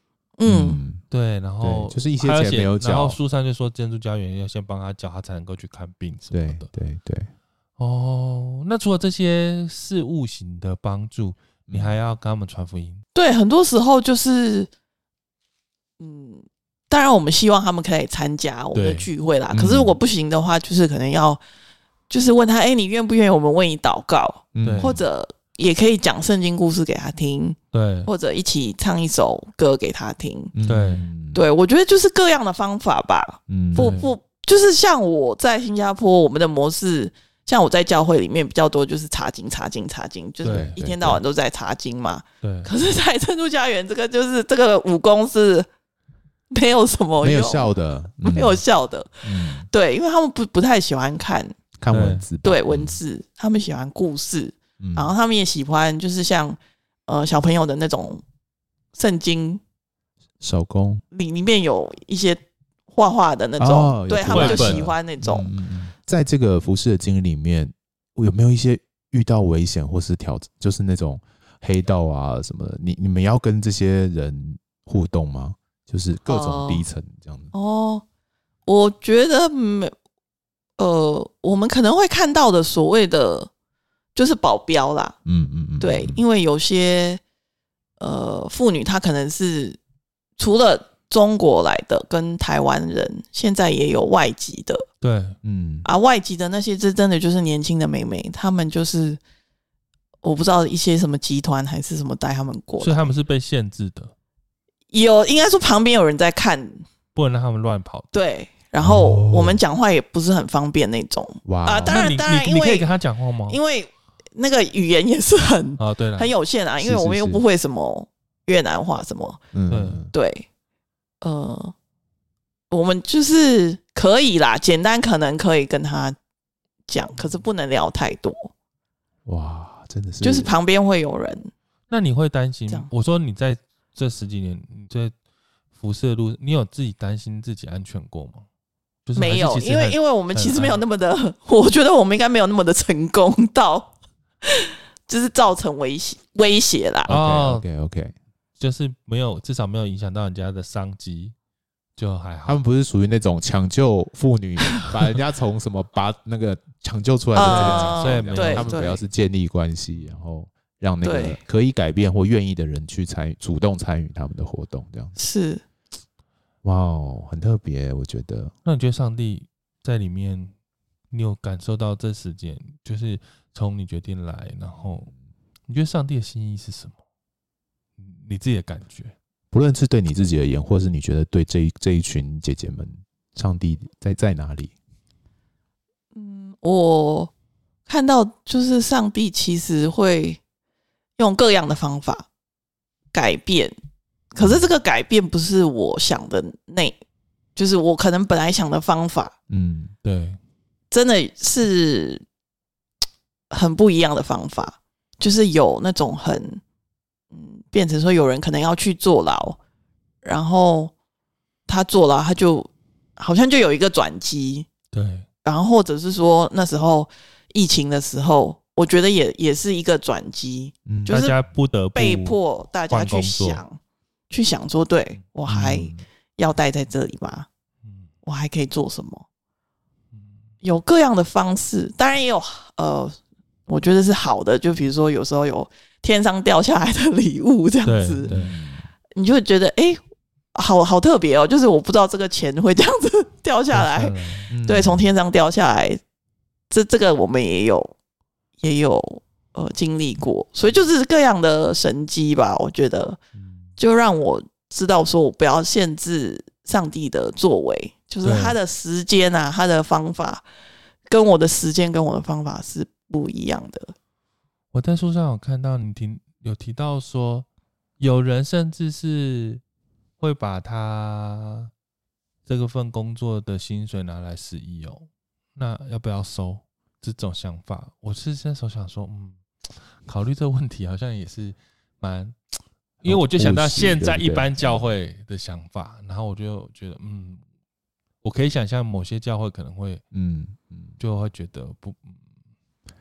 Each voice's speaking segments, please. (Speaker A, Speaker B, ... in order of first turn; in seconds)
Speaker A: 0.4-0.8, 13.1-14.7, 16.0-21.4, 22.1-30.5, 31.3-45.7, 46.5-51.5, 52.4-58.2, 58.9-59.6, 61.1-65.5, 76.3-76.8, 77.5-78.0, 78.7-79.9, 80.8-83.5, 84.1-85.2, 85.8-87.2, 88.0-89.8, 90.4-94.8, 95.8-99.2, 100.2-103.1, 104.9-106.8, 108.1-112.9, 113.5-119.4, 120.1-120.5, 121.2-121.7, 122.7-126.2, 126.9-128.5, 130.2-131.5, 139.2-143.9, 144.4-147.1, 157.3-159.0, 161.0-161.4, 165.2-165.6, 186.1-187.3, 187.9-190.4, 191.2-192.2, 193.1-193.8, 194.3-197.0, 197.6-199.3, 200.9-202.2, 203.5-206.6, 207.3-209.6, 210.2-210.9, 211.7-214.7, 215.4-221.4, 221.9-223.8, 224.3-227.5, 228.2-229.2, 230.6-233.2, 233.7-238.3, 239.2-240.0, 240.5-246.0, 246.7-247.9, 248.6-253.2, 253.8-260.4, 261.1-263.9
Speaker B: 0.4-1.0, 1.6-3.2, 6.3-7.3, 11.7-11.9, 19.5-19.9, 24.5-25.0, 30.5-31.4, 33.5-33.9, 40.4-41.2, 47.2-48.6, 49.2-49.7, 51.8-53.0, 54.8-55.1, 60.4-61.0, 63.6-77.5, 85.2-86.2, 95.4-95.8, 108.8-109.6, 111.4-112.1, 116.8-117.4, 119.5-120.1, 129.2-130.5, 147.1-148.1, 152.4-165.2, 166.6-168.5, 179.5-184.7, 199.5-199.9, 220.8-221.2, 225.4-226.0, 238.3-238.9, 244.5-245.1, 253.3-253.7, 283.0-284.9, 290.1-290.9
Speaker C: 1.1-6.7, 7.8-13.0, 18.7-19.1, 24.6-24.9, 27.7-28.1, 30.6-31.0, 33.7-34.1, 40.4-40.8, 42.4-42.7, 51.9-52.2, 64.3-64.9, 95.0-95.4, 102.8-104.1, 107.1-108.1, 111.9-113.6, 115.8-116.3, 119.7-120.0, 131.9-135.1, 135.8-138.4, 139.1-140.8, 147.1-147.6, 148.6-151.3, 152.0-152.6, 157.4-158.8, 159.9-160.2, 168.6-170.5, 171.1-175.1, 175.7-176.9, 178.0-179.1, 200.0-200.4, 214.9-215.2, 221.1-223.6, 237.8-238.5, 243.7-244.5, 258.2-258.6, 264.7-267.5, 268.0-269.6, 270.2-271.7, 272.4-287.4, 288.2-290.0, 291.0-292.2